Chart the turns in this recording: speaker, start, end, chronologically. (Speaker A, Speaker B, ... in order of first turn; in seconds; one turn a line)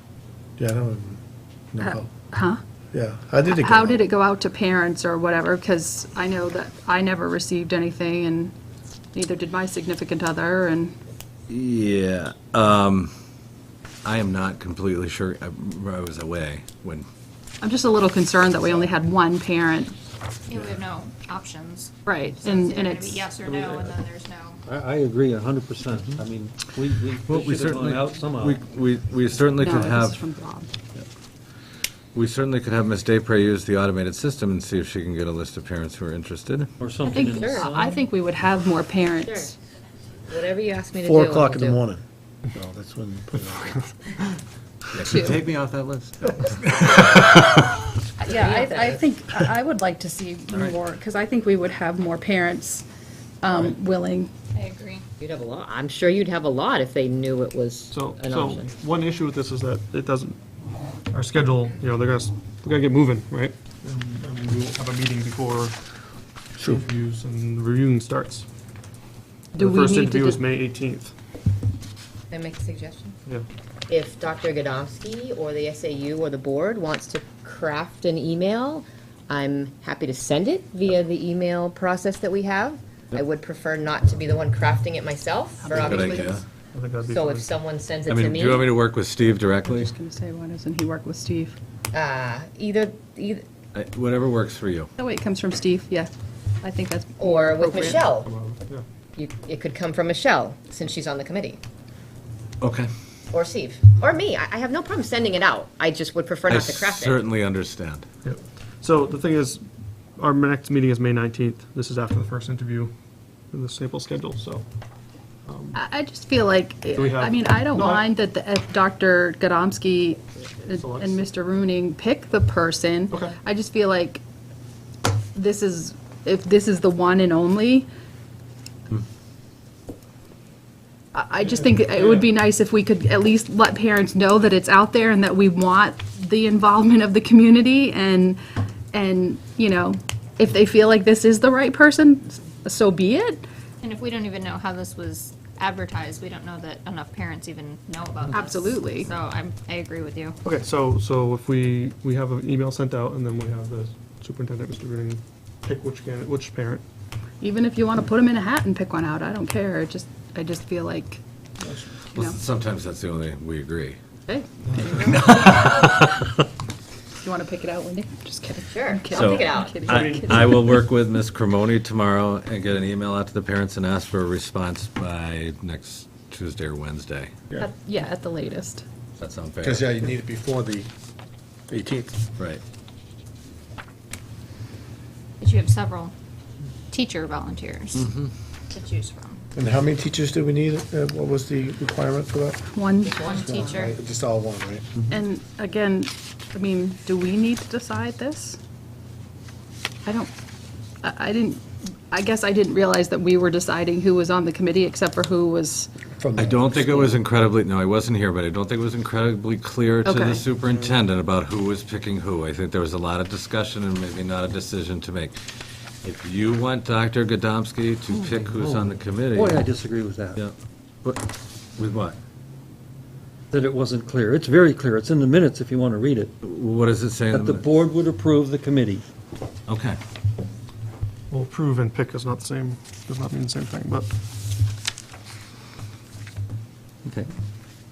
Speaker A: 0.6-1.2
Speaker A: 1.7-2.1
Speaker B: 1.8-2.6
Speaker A: 2.9-4.0
Speaker B: 3.5-8.5
Speaker B: 9.1-11.0
Speaker C: 11.5-13.1
Speaker C: 14.1-17.1
Speaker B: 17.6-19.9
Speaker D: 20.5-24.6
Speaker B: 22.1-23.3
Speaker E: 23.5-23.9
Speaker E: 24.7-28.6
Speaker C: 27.3-30.2
Speaker B: 29.6-30.7
Speaker C: 32.1-36.7
Speaker E: 36.8-37.9
Speaker B: 37.1-39.5
Speaker F: 37.1-37.7
Speaker F: 39.2-39.5
Speaker F: 40.3-41.8
Speaker A: 41.0-43.8
Speaker C: 44.9-47.2
Speaker B: 45.1-45.4
Speaker B: 48.2-52.9
Speaker F: 48.3-49.0
Speaker B: 53.4-54.3
Speaker D: 54.5-55.0
Speaker F: 55.2-58.7
Speaker G: 57.9-60.4
Speaker G: 61.1-65.9
Speaker G: 66.6-68.5
Speaker B: 69.5-70.4
Speaker G: 69.6-71.1
Speaker F: 72.3-73.2
Speaker F: 73.9-86.4
Speaker B: 85.6-86.4
Speaker C: 85.8-86.4
Speaker G: 86.7-87.5
Speaker F: 87.0-88.7
Speaker C: 88.1-89.9
Speaker B: 89.6-91.6
Speaker F: 91.9-93.4
Speaker C: 93.7-94.9
Speaker B: 95.0-96.1
Speaker B: 96.6-98.0
Speaker F: 97.2-98.3
Speaker G: 97.6-98.8
Speaker F: 99.2-101.6
Speaker C: 102.6-102.9
Speaker F: 103.3-107.2
Speaker C: 106.5-108.1
Speaker G: 108.2-112.9
Speaker G: 113.5-114.7
Speaker G: 115.5-115.8
Speaker B: 115.8-124.2
Speaker G: 116.9-118.1
Speaker G: 120.8-121.3
Speaker G: 123.1-123.4
Speaker B: 125.3-127.9
Speaker B: 131.1-138.4
Speaker G: 131.5-132.3
Speaker B: 138.9-143.4
Speaker D: 143.8-150.4
Speaker B: 148.3-149.1
Speaker G: 150.4-156.8
Speaker B: 157.4-161.2
Speaker G: 161.6-161.9
Speaker C: 162.1-164.0
Speaker F: 164.3-165.1
Speaker C: 164.9-166.3
Speaker B: 167.2-170.6
Speaker F: 168.7-170.0
Speaker C: 169.1-177.3
Speaker G: 169.9-170.7
Speaker B: 177.6-178.8
Speaker C: 179.2-179.9
Speaker A: 179.6-180.9
Speaker A: 181.7-182.2
Speaker D: 185.4-186.1
Speaker D: 186.9-188.1
Speaker C: 187.9-188.3
Speaker D: 188.7-189.4
Speaker A: 189.6-194.9
Speaker B: 192.7-193.4
Speaker D: 193.1-194.0
Speaker B: 195.1-198.6
Speaker B: 200.1-200.3
Speaker B: 201.0-205.9
Speaker A: 206.2-207.1
Speaker C: 206.4-219.6
Speaker B: 210.0-210.5
Speaker E: 218.1-220.4
Speaker C: 220.4-222.2
Speaker E: 223.5-226.3
Speaker C: 226.4-227.7
Speaker E: 227.3-229.0
Speaker C: 229.7-230.0
Speaker G: 231.3-234.1